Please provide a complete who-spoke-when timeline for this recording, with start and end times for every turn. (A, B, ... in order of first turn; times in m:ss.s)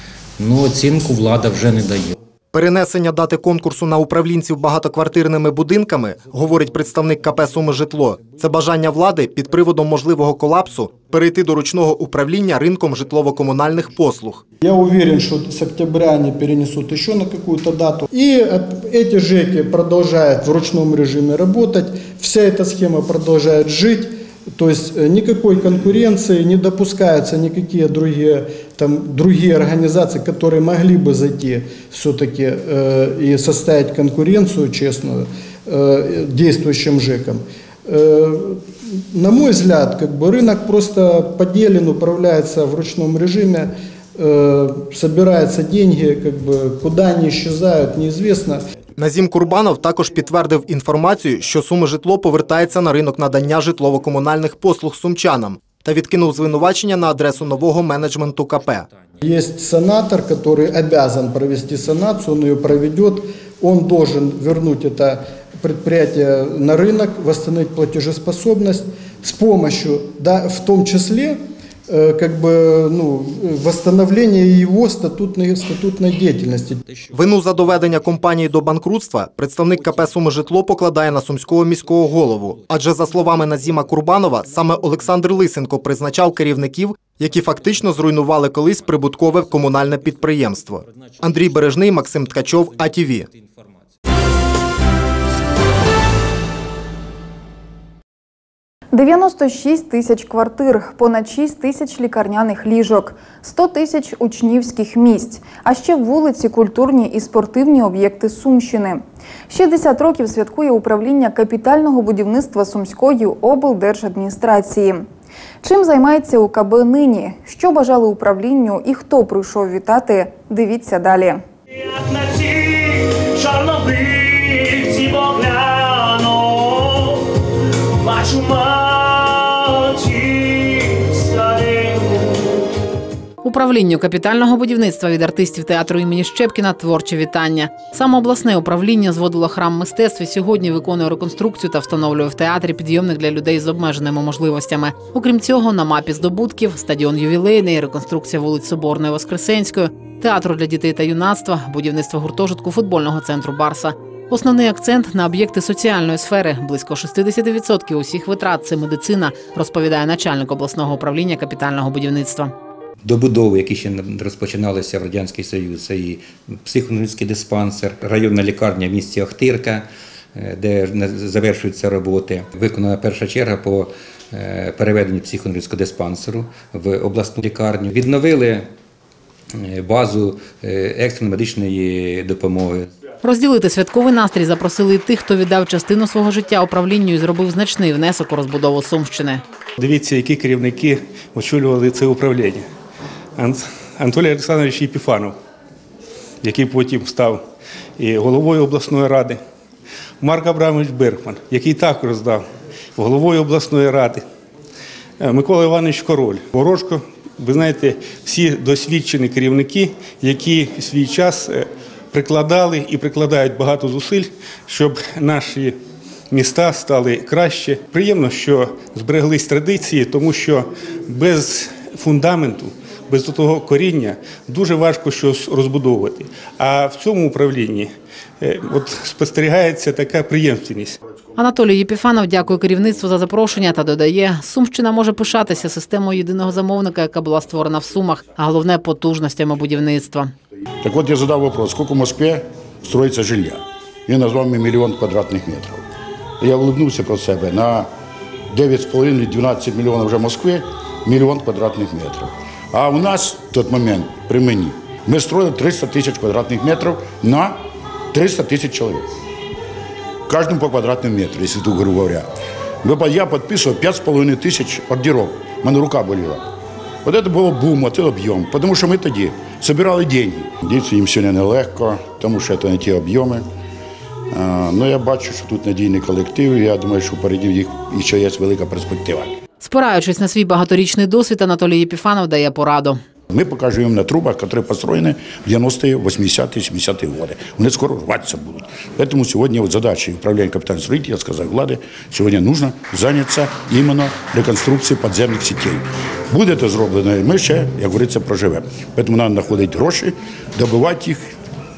0:00.4-0:02.2 A
0:02.5-0:14.4 B
0:14.6-0:48.6 C
0:49.0-0:58.9 B
0:59.2-1:16.8 C
1:17.1-1:33.3 B
1:38.9-1:55.0 D
1:55.6-2:01.4 D
2:13.4-2:42.5 E
2:43.0-2:58.7 A
2:59.6-3:02.9 A
3:03.2-3:09.4 E
3:09.8-3:12.7 F
3:13.4-3:15.4 F
3:16.4-3:17.4 F
3:18.0-3:19.4 F
3:20.2-3:22.4 F
3:23.0-3:24.2 F
3:25.2-3:35.8 F
3:36.3-3:51.0 F
3:51.4-4:00.3 E
4:00.8-4:05.8 G
4:06.4-4:07.9 G
4:08.5-4:17.6 G
4:18.1-4:19.1 G
4:20.3-4:22.3 G
4:22.8-4:26.5 G
4:27.0-4:33.4 G
4:34.3-4:39.3 G
4:39.6-4:43.0 E
4:43.3-5:01.3 G